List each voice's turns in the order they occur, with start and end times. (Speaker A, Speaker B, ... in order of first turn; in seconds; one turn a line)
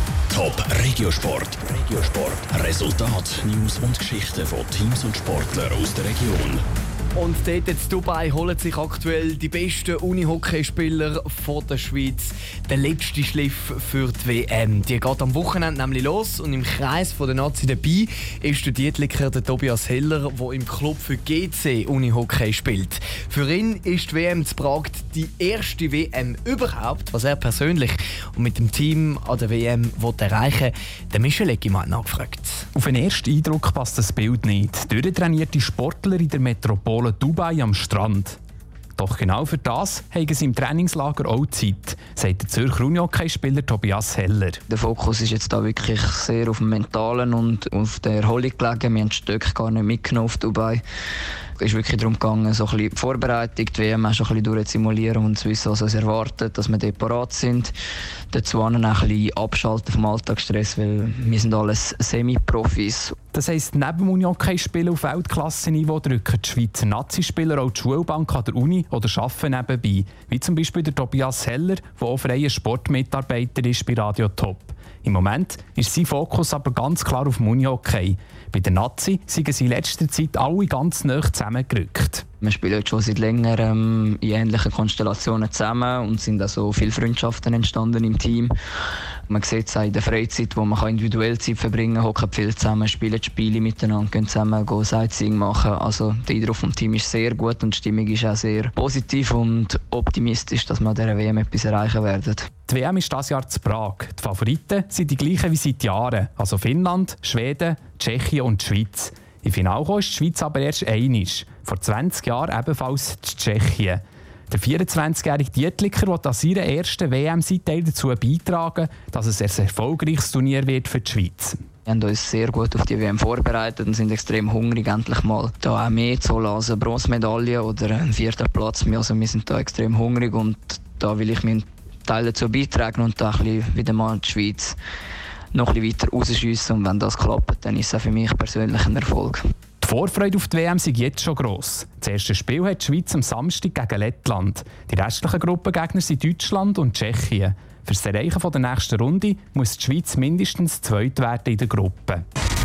Speaker A: 0.3-6.6
Speaker B: 7.2-32.6
Speaker C: 32.8-38.4
Speaker C: 39.0-44.6
Speaker D: 44.7-50.8
Speaker D: 51.6-57.7
Speaker D: 58.3-63.2
Speaker C: 63.3-82.2
Speaker D: 82.4-88.5
Speaker D: 89.3-102.5
Speaker C: 102.7-121.6
Speaker D: 121.9-134.8
Speaker D: 135.5-139.4
Speaker C: 139.8-152.2